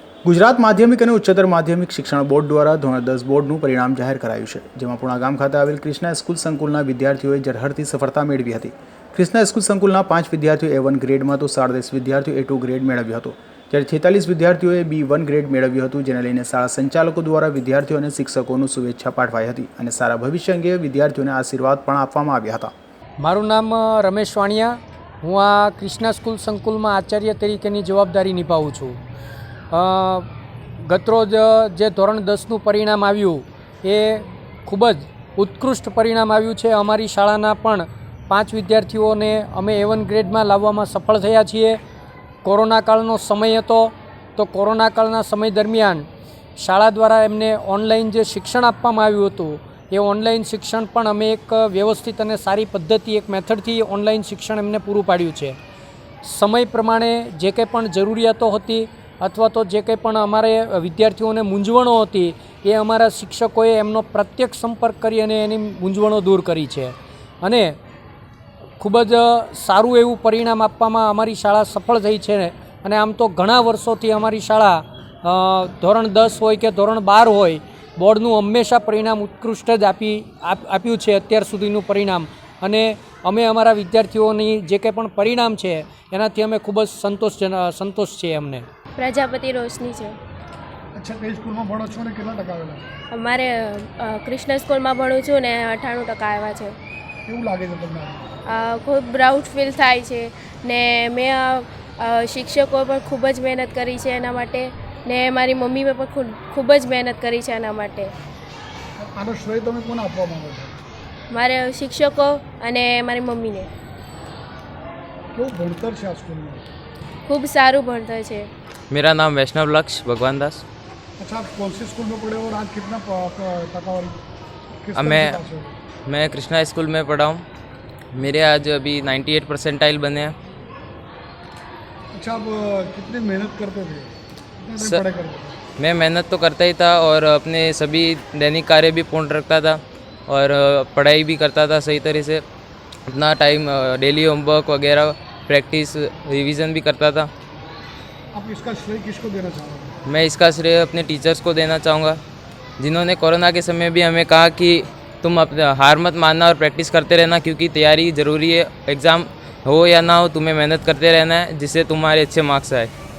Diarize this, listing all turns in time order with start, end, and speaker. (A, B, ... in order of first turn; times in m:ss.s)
0:00.2-0:22.7 A
0:23.2-0:29.0 B
0:29.7-0:30.3 B
0:30.8-0:41.8 B
0:42.4-0:46.0 B
0:46.6-0:55.6 B
0:56.2-1:07.8 B
1:08.8-1:28.7 B
1:29.0-1:30.2 C
1:31.0-1:32.8 D
1:33.1-1:36.7 C
1:37.3-1:38.3 D
1:38.5-1:48.1 C
1:49.0-1:50.8 D
1:51.3-1:53.7 C
1:55.3-1:56.7 D
1:57.3-1:58.5 C
1:58.9-2:00.6 E
2:01.2-2:04.2 D
2:04.7-2:05.8 D
2:05.0-2:05.4 E
2:06.1-2:07.4 E
2:08.1-2:10.3 E
2:12.1-2:15.6 D
2:15.8-2:22.4 E
2:23.1-2:27.3 E
2:28.3-2:30.0 D
2:30.1-2:32.2 E
2:32.8-2:42.9 E